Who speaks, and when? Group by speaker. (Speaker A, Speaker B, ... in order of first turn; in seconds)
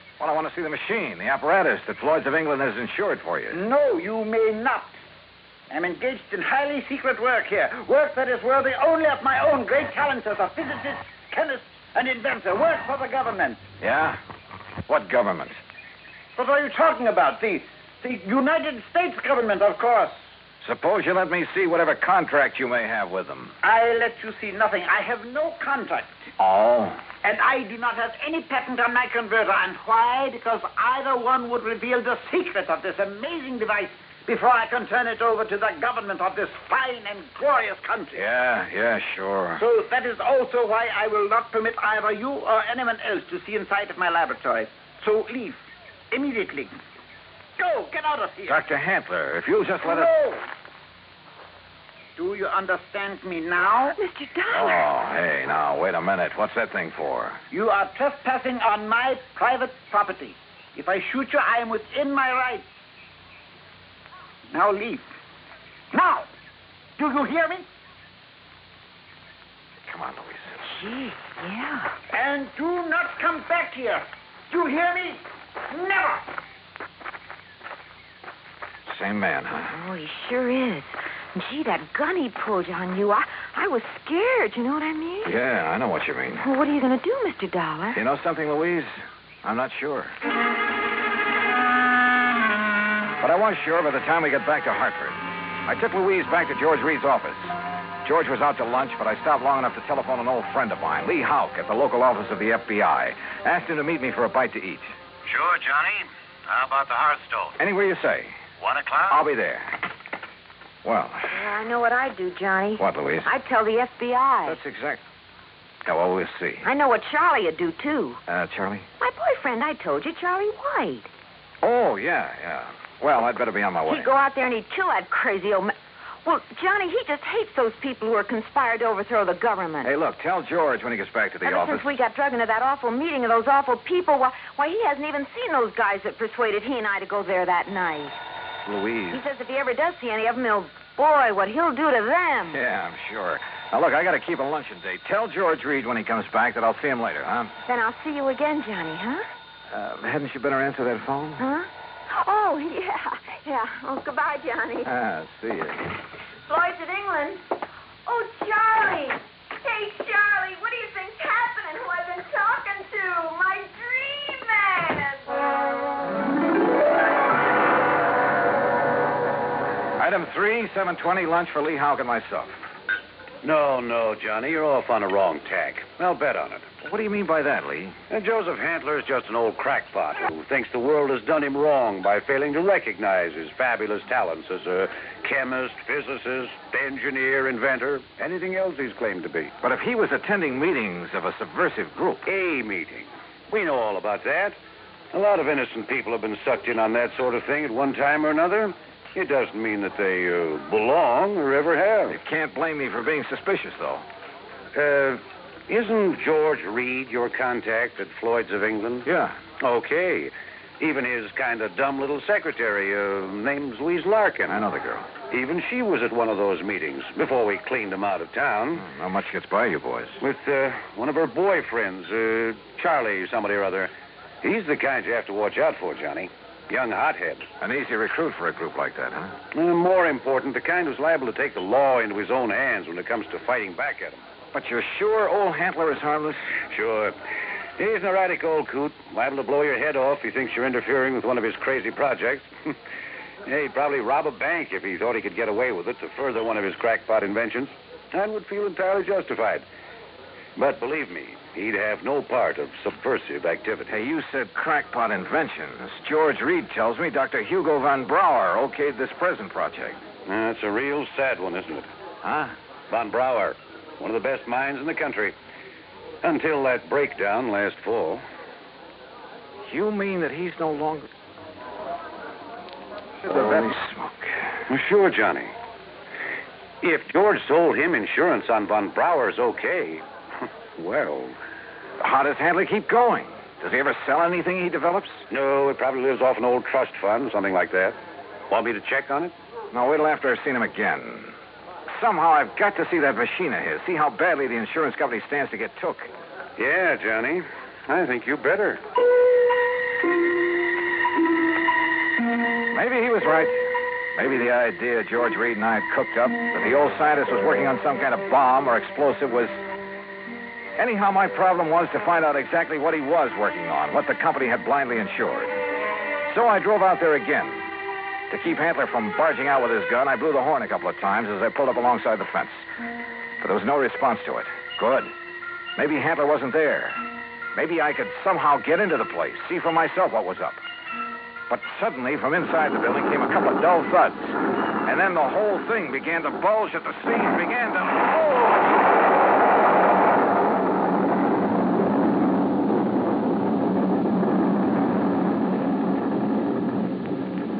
Speaker A: 0.2-3.6, 13.8-14.2, 14.9-15.6, 20.6-23.6, 26.4-27.0, 38.1-39.6, 48.5-50.1, 54.5-57.4, 69.8-70.6, 78.9-79.8, 85.2-86.5, 87.9-90.1, 93.2-104.9, 107.6-108.3, 109.1-109.7, 110.8-111.5, 112.8-113.3, 114.4-115.0, 115.8-116.7, 118.3-118.9, 121.6-124.1, 129.8-132.0, 138.7-139.2, 142.5-147.5, 149.7-151.5, 154.8-155.9, 170.0-172.7, 176.8-178.0, 189.6-192.3, 202.1-204.0, 209.1-209.4, 214.5-215.1, 218.7-220.2, 227.6-229.3, 234.5-236.5, 253.9-260.0, 262.2-262.6, 269.6-271.1, 273.2-274.5, 282.0-285.3, 289.7-291.3, 291.9-296.1, 302.7-309.6, 310.8-315.6, 316.2-317.7, 318.3-322.6, 323.4-325.1, 325.8-327.0, 327.5-330.6, 331.5-338.7
Speaker B: 3.5-5.0, 5.7-13.6, 16.4-20.2, 23.6-26.3, 27.2-38.2, 39.6-46.7, 47.6-48.6, 49.8-50.5, 52.2-54.0, 57.5-62.6, 64.5-65.1, 65.9-66.3, 67.0-67.7, 72.1-76.3
Speaker C: 53.9-54.9, 70.6-71.9, 79.7-85.3, 86.4-88.0, 111.3-114.6, 116.6-118.2, 119.0-121.1, 123.9-125.7, 126.2-129.9, 131.4-138.2, 139.1-142.6, 147.7-149.2, 151.4-154.9, 156.4-157.4, 158.0-165.3
Speaker D: 105.3-107.5, 108.6-109.2, 173.4-176.7, 178.1-189.5, 192.2-194.6, 195.1-202.2, 204.7-209.1, 209.6-214.6, 215.3-218.8, 220.2-227.4, 229.5-234.2, 236.7-237.1, 237.8-242.5, 243.4-249.6, 250.6-253.9, 260.2-261.9, 262.9-265.4, 266.2-268.2, 274.7-275.5, 276.8-280.0, 280.8-281.4, 285.3-288.0, 288.5-289.3, 296.6-298.8